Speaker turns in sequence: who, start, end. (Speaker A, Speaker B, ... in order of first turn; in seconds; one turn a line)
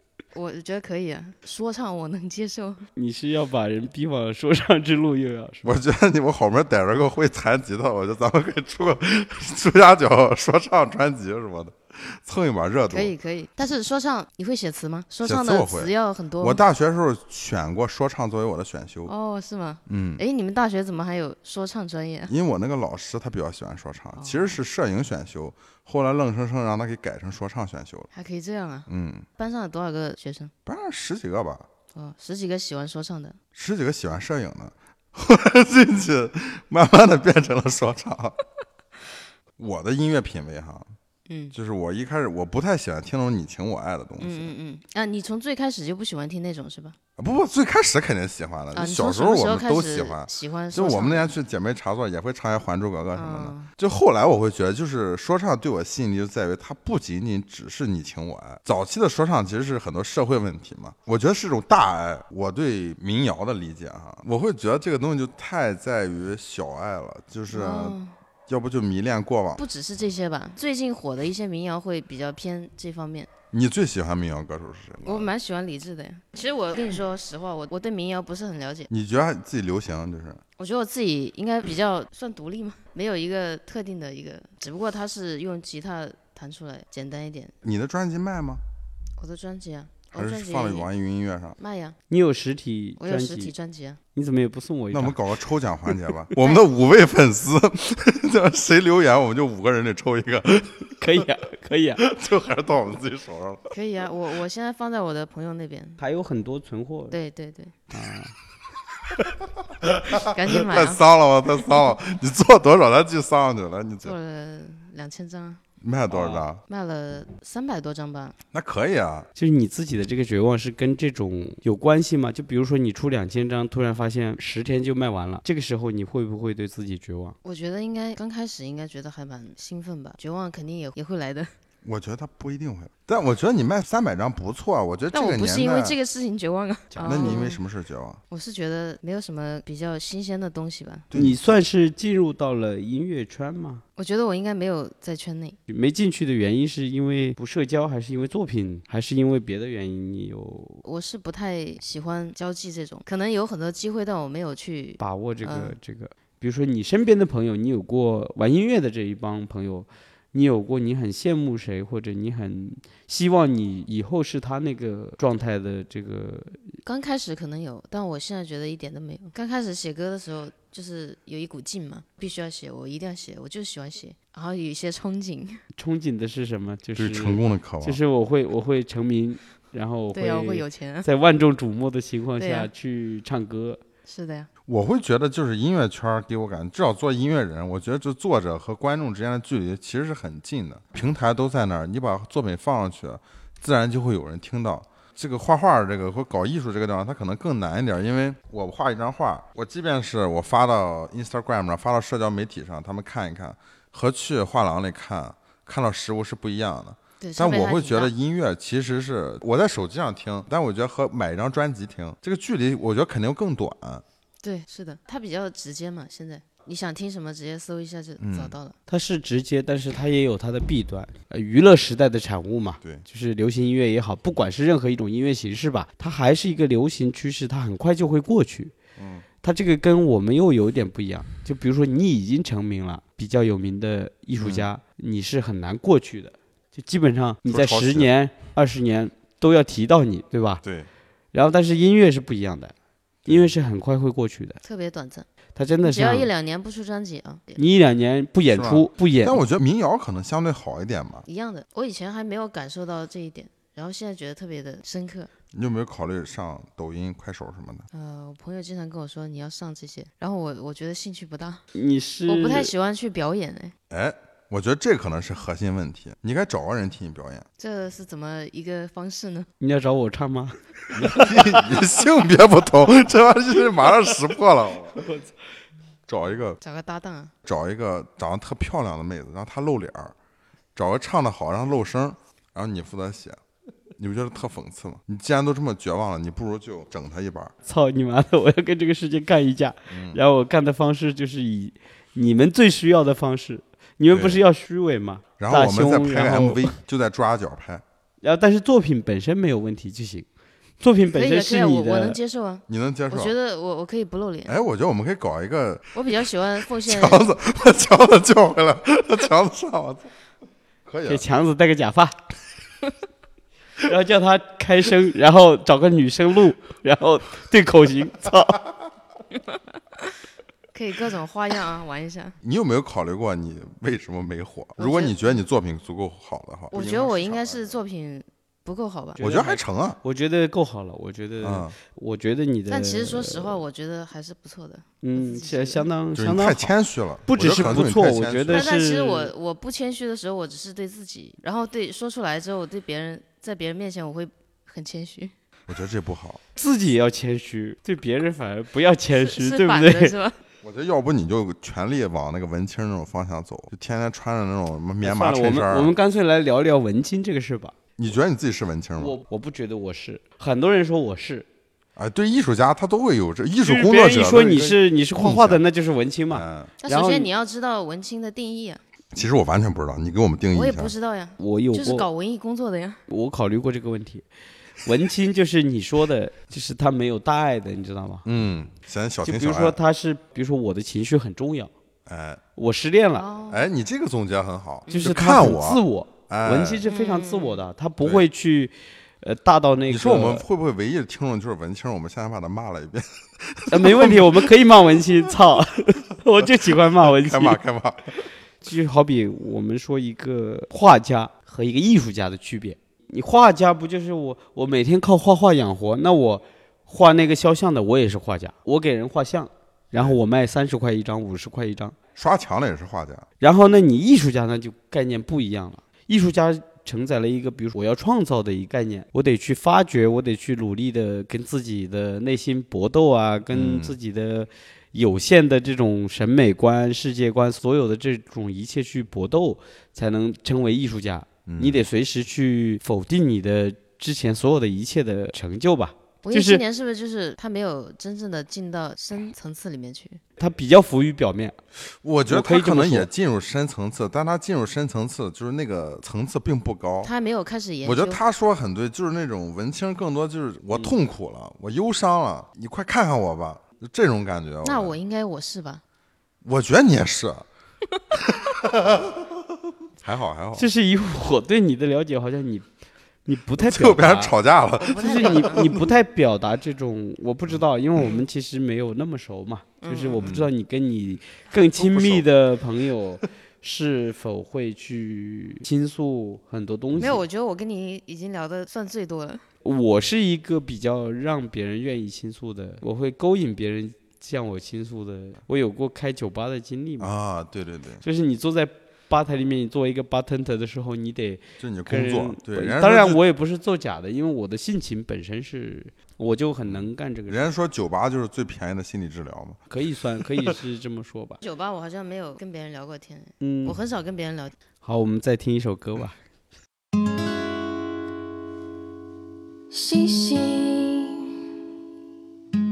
Speaker A: 0.3-2.8
Speaker B: 3.0-5.8
Speaker C: 5.6-13.1
Speaker A: 12.9-16.6
Speaker C: 15.2-19.1
Speaker A: 19.1-22.3
Speaker C: 19.9-20.2
Speaker C: 22.3-28.1
Speaker A: 24.2-24.6
Speaker A: 28.1-28.9
Speaker C: 28.9-29.2
Speaker A: 29.4-30.5
Speaker C: 30.6-31.7
Speaker A: 31.9-33.4
Speaker C: 33.5-38.4
Speaker C: 39.6-40.9
Speaker A: 41.3-41.5
Speaker C: 41.5-44.5
Speaker A: 44.2-47.0
Speaker C: 47.2-69.6
Speaker A: 48.7-51.3
Speaker A: 53.1-53.7
Speaker A: 67.5-68.1
Speaker A: 69.6-73.3
Speaker C: 73.5-75.3
Speaker A: 75.0-78.9
Speaker C: 78.9-80.4
Speaker A: 80.6-87.5
Speaker C: 87.6-88.6
Speaker A: 89.2-90.9
Speaker C: 90.1-91.6
Speaker A: 91.6-92.0
Speaker B: 92.1-93.5
Speaker A: 93.0-94.0
Speaker B: 94.1-95.2
Speaker C: 94.9-101.2
Speaker B: 100.9-102.0
Speaker C: 102.0-103.6
Speaker A: 103.7-106.0
Speaker B: 106.0-107.2
Speaker A: 107.1-107.7
Speaker B: 107.9-108.3
Speaker C: 110.1-114.2
Speaker A: 110.2-111.0
Speaker A: 114.0-115.6
Speaker C: 115.8-116.6
Speaker B: 116.1-116.4
Speaker A: 116.7-118.3
Speaker C: 118.5-119.3
Speaker B: 119.3-127.3
Speaker A: 127.4-131.5
Speaker C: 131.8-136.0
Speaker A: 135.1-137.6
Speaker B: 136.9-137.4
Speaker C: 137.0-138.2
Speaker A: 138.3-141.1
Speaker C: 141.1-141.5
Speaker B: 141.1-143.8
Speaker A: 144.0-145.6
Speaker B: 145.7-150.8
Speaker A: 150.8-155.8
Speaker B: 155.0-166.8
Speaker A: 166.8-175.6
Speaker B: 175.7-183.8
Speaker C: 176.9-178.0
Speaker A: 180.1-181.1
Speaker A: 182.4-182.7
Speaker A: 184.1-184.5
Speaker C: 184.7-214.0
Speaker A: 207.2-208.1
Speaker A: 214.4-218.8
Speaker C: 218.2-218.5
Speaker B: 218.9-228.7
Speaker C: 228.9-229.2
Speaker B: 229.4-240.6
Speaker C: 234.4-234.7
Speaker C: 237.4-238.1
Speaker B: 241.3-242.7
Speaker C: 243.2-243.5
Speaker B: 243.2-244.6
Speaker A: 244.6-245.2
Speaker B: 245.6-246.3
Speaker A: 245.8-247.6
Speaker B: 247.6-249.4
Speaker C: 248.5-251.2
Speaker A: 251.3-255.3
Speaker C: 255.5-257.9
Speaker A: 257.9-261.6
Speaker B: 261.7-262.7
Speaker A: 262.3-263.7
Speaker C: 263.9-267.4
Speaker A: 267.6-269.5
Speaker B: 269.6-271.7
Speaker C: 270.9-275.0
Speaker B: 275.0-275.2
Speaker C: 276.1-276.6
Speaker A: 276.6-277.3
Speaker C: 277.4-280.1
Speaker C: 280.7-283.4
Speaker C: 284.0-287.5
Speaker B: 287.6-296.7
Speaker C: 289.9-290.2
Speaker C: 294.1-294.4
Speaker C: 295.4-297.8
Speaker B: 298.2-300.3
Speaker B: 300.8-302.2
Speaker A: 301.1-304.5
Speaker C: 302.7-303.3
Speaker C: 304.5-310.1
Speaker A: 305.9-307.2
Speaker C: 310.9-311.2
Speaker B: 311.1-312.1
Speaker B: 313.8-318.6
Speaker A: 320.7-322.4
Speaker C: 322.4-327.8
Speaker A: 324.8-325.2
Speaker A: 326.7-329.2
Speaker B: 329.2-333.6
Speaker C: 329.2-330.0
Speaker C: 331.4-331.8
Speaker A: 332.7-335.9
Speaker B: 335.0-336.7
Speaker C: 336.1-338.7
Speaker B: 337.2-339.3
Speaker A: 338.5-345.3
Speaker C: 345.7-346.4
Speaker B: 346.6-350.1
Speaker A: 349.1-350.4
Speaker C: 350.6-355.9
Speaker B: 355.0-357.8
Speaker C: 358.0-359.1
Speaker B: 359.0-361.4
Speaker C: 361.9-365.6
Speaker B: 363.6-367.3
Speaker C: 366.3-366.7
Speaker A: 366.8-368.8
Speaker C: 369.1-370.9
Speaker A: 370.5-373.0
Speaker B: 371.4-372.1
Speaker B: 373.1-374.2
Speaker B: 374.8-378.2
Speaker C: 378.2-379.8
Speaker B: 379.2-381.7
Speaker C: 382.1-382.4
Speaker B: 382.6-383.3
Speaker A: 383.1-383.6
Speaker C: 383.5-386.8
Speaker B: 384.9-390.4
Speaker A: 386.9-387.6
Speaker C: 389.9-394.5
Speaker B: 393.7-397.6
Speaker C: 396.9-398.1
Speaker B: 398.6-411.9
Speaker C: 412.1-413.2
Speaker B: 413.4-436.6
Speaker C: 423.5-423.9
Speaker C: 431.4-431.8
Speaker A: 436.2-440.2
Speaker B: 440.4-441.6
Speaker C: 442.0-447.1
Speaker B: 442.3-443.1
Speaker A: 447.0-448.2
Speaker C: 447.8-455.0
Speaker A: 454.6-455.8
Speaker C: 456.4-457.4
Speaker C: 458.1-459.3
Speaker C: 460.0-460.7
Speaker B: 460.6-462.6
Speaker B: 463.2-464.3
Speaker C: 463.6-465.9
Speaker A: 464.8-465.6
Speaker B: 464.9-477.2
Speaker A: 469.8-470.3
Speaker C: 470.2-470.5
Speaker C: 471.8-472.3
Speaker A: 477.0-479.4
Speaker B: 479.6-487.1
Speaker C: 487.0-488.0
Speaker B: 488.0-497.4
Speaker C: 491.6-493.2
Speaker C: 496.6-499.6
Speaker B: 499.7-501.4
Speaker C: 500.2-500.5
Speaker A: 501.4-504.5
Speaker B: 503.4-503.8
Speaker B: 504.8-506.2
Speaker A: 509.7-511.3